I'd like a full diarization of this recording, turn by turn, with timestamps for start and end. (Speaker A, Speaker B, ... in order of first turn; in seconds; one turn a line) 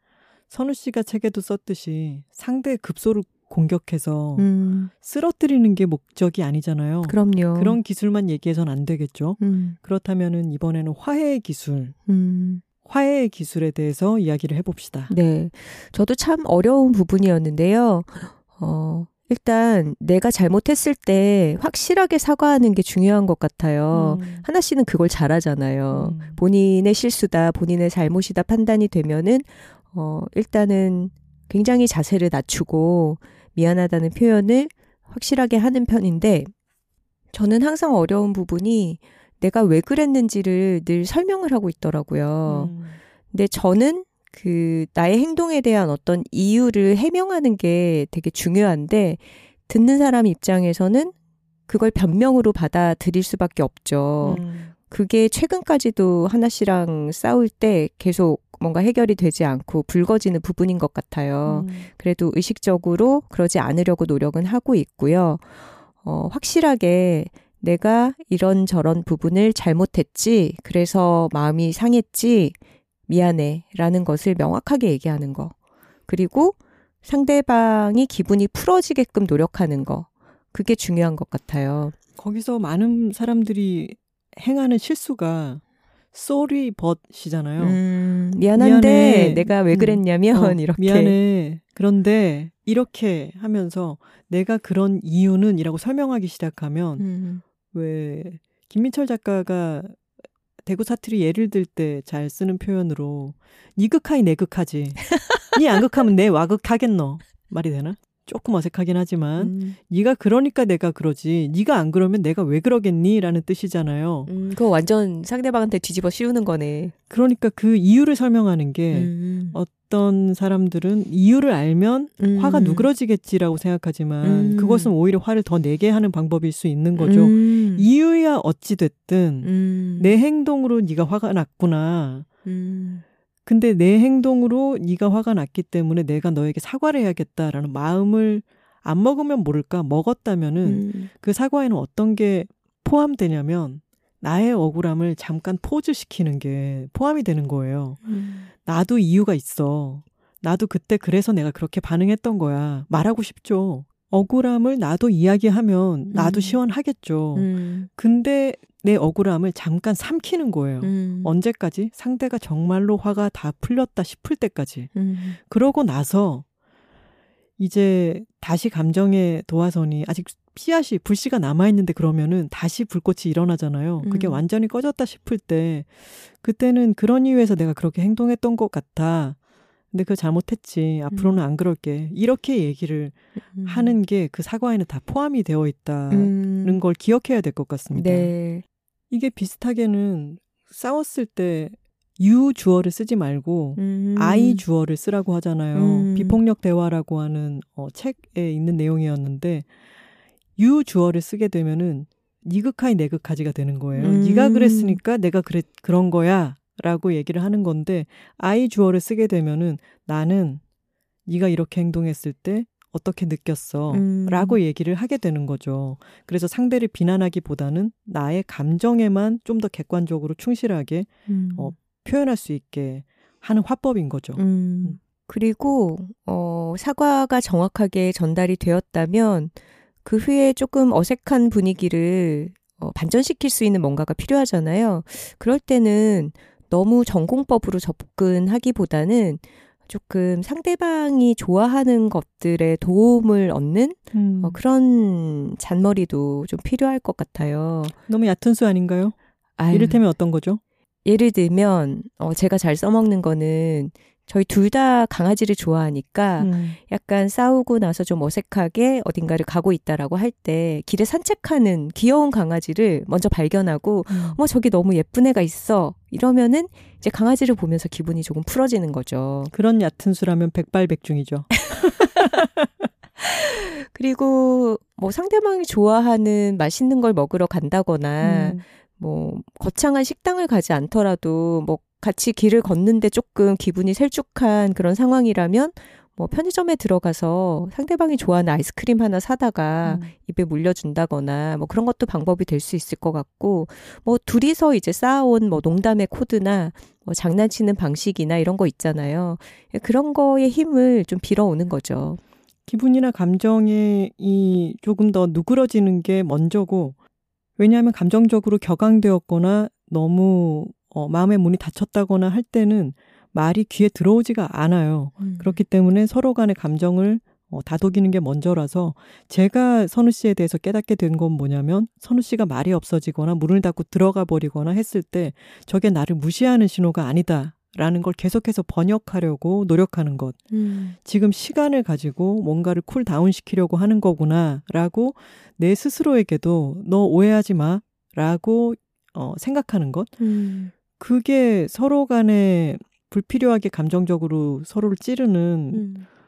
Speaker A: 0.5-11.9
Speaker B: 4.4-4.9
Speaker B: 7.1-7.8
Speaker B: 9.4-9.8
Speaker B: 12.1-12.6
Speaker A: 12.8-15.1
Speaker B: 15.1-36.5
Speaker A: 23.9-24.4
Speaker A: 25.9-26.4
Speaker B: 37.3-42.7
Speaker A: 42.5-43.0
Speaker B: 43.3-51.1
Speaker B: 51.7-65.5
Speaker A: 54.2-54.7
Speaker A: 61.5-61.9
Speaker B: 66.0-72.6
Speaker B: 73.1-75.5
Speaker B: 76.1-82.0
Speaker A: 82.2-85.6
Speaker A: 86.1-87.8
Speaker B: 87.6-91.2
Speaker A: 88.6-97.1
Speaker B: 97.0-97.4
Speaker A: 97.7-100.0
Speaker A: 100.6-114.3
Speaker B: 109.4-109.8
Speaker B: 114.3-116.9
Speaker A: 117.1-132.3
Speaker B: 118.9-119.6
Speaker B: 122.2-122.9
Speaker B: 124.2-124.9
Speaker B: 127.0-127.9
Speaker B: 129.4-130.2
Speaker B: 132.4-133.0
Speaker A: 133.5-148.0
Speaker B: 140.6-141.1
Speaker B: 148.1-148.5
Speaker A: 148.6-166.4
Speaker B: 156.1-156.6
Speaker B: 157.3-157.9
Speaker B: 160.8-161.3
Speaker B: 164.9-165.4
Speaker A: 167.6-179.4
Speaker B: 174.0-174.4
Speaker A: 179.9-188.3
Speaker B: 181.1-181.4
Speaker B: 183.6-184.0
Speaker B: 186.1-186.8
Speaker B: 187.9-188.6
Speaker A: 189.1-199.7
Speaker B: 193.8-194.6
Speaker B: 195.8-196.4
Speaker A: 200.6-210.6
Speaker B: 204.0-205.0
Speaker A: 211.3-225.0
Speaker B: 213.9-214.6
Speaker B: 221.3-221.7
Speaker B: 224.4-229.5
Speaker B: 230.1-247.9
Speaker A: 244.1-244.6
Speaker A: 248.1-249.2
Speaker B: 249.6-250.0
Speaker A: 249.7-250.6
Speaker B: 251.1-269.5
Speaker A: 256.4-256.8
Speaker A: 264.1-264.4
Speaker A: 269.5-272.9
Speaker B: 271.8-272.3
Speaker B: 273.2-302.2
Speaker A: 278.2-278.6
Speaker A: 289.8-290.1
Speaker A: 302.7-307.0
Speaker A: 307.6-330.4
Speaker B: 315.2-315.6
Speaker B: 330.5-331.0
Speaker A: 331.0-340.1
Speaker B: 340.2-340.7
Speaker A: 341.0-345.9
Speaker B: 345.7-346.1